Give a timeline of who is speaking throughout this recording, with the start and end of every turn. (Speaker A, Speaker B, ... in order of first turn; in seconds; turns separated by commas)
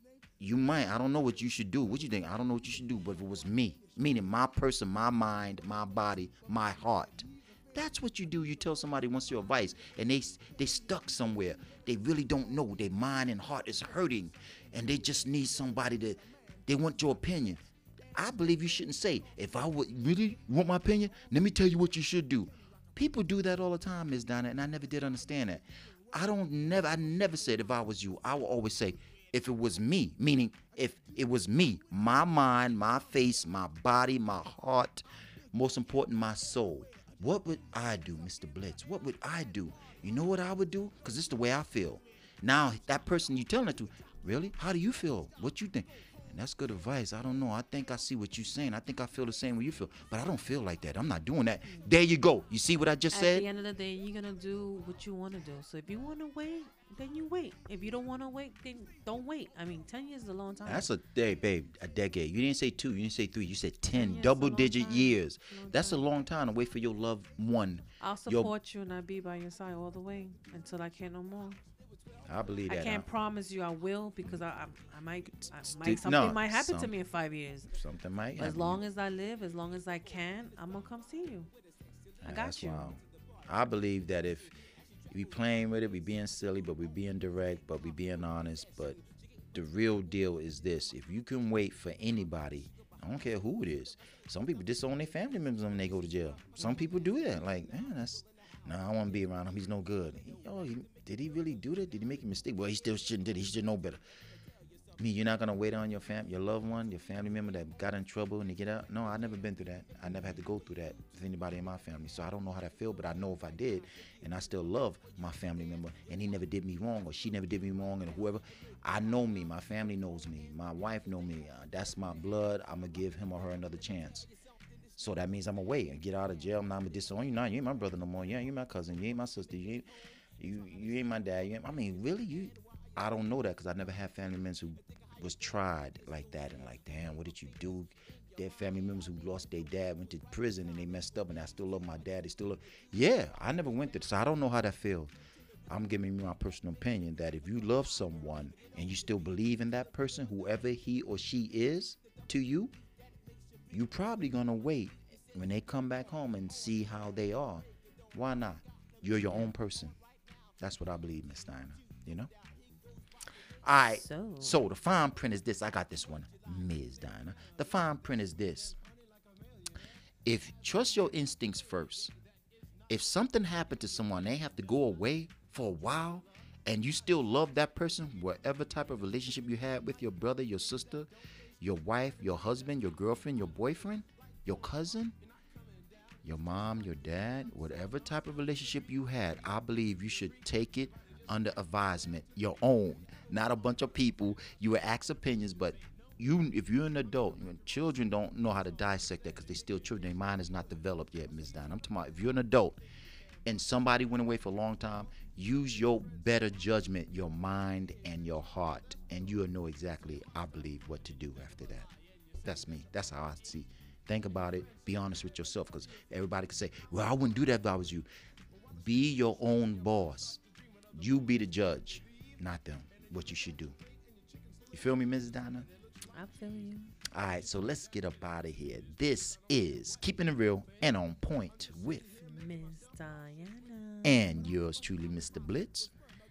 Speaker A: 0.4-17.6, Speaker A: 18.2-53.5, Speaker B: 53.1-60.9, Speaker A: 60.7-68.5, Speaker B: 63.9-66.0, Speaker B: 68.0-71.6, Speaker A: 72.3-73.1, Speaker B: 72.7-77.7, Speaker A: 75.5-76.9, Speaker A: 77.7-78.8, Speaker B: 78.4-81.5, Speaker A: 82.2-84.5, Speaker B: 82.3-83.0, Speaker A: 85.1-89.0, Speaker A: 89.5-104.0, Speaker B: 96.6-96.9, Speaker A: 105.0-124.3, Speaker A: 125.0-129.8, Speaker A: 130.4-145.1, Speaker A: 145.7-152.7, Speaker A: 153.7-160.0, Speaker B: 159.2-159.5, Speaker A: 160.6-162.3, Speaker A: 163.7-168.8, Speaker B: 163.9-164.6, Speaker A: 170.2-172.1, Speaker A: 172.9-181.1, Speaker A: 181.6-185.2, Speaker A: 186.2-202.8, Speaker A: 203.5-211.9, Speaker A: 212.4-218.1, Speaker A: 218.8-220.4, Speaker A: 220.9-223.8, Speaker A: 224.7-225.7, Speaker B: 226.1-226.9, Speaker A: 227.1-232.2, Speaker B: 232.2-234.6, Speaker A: 234.0-235.9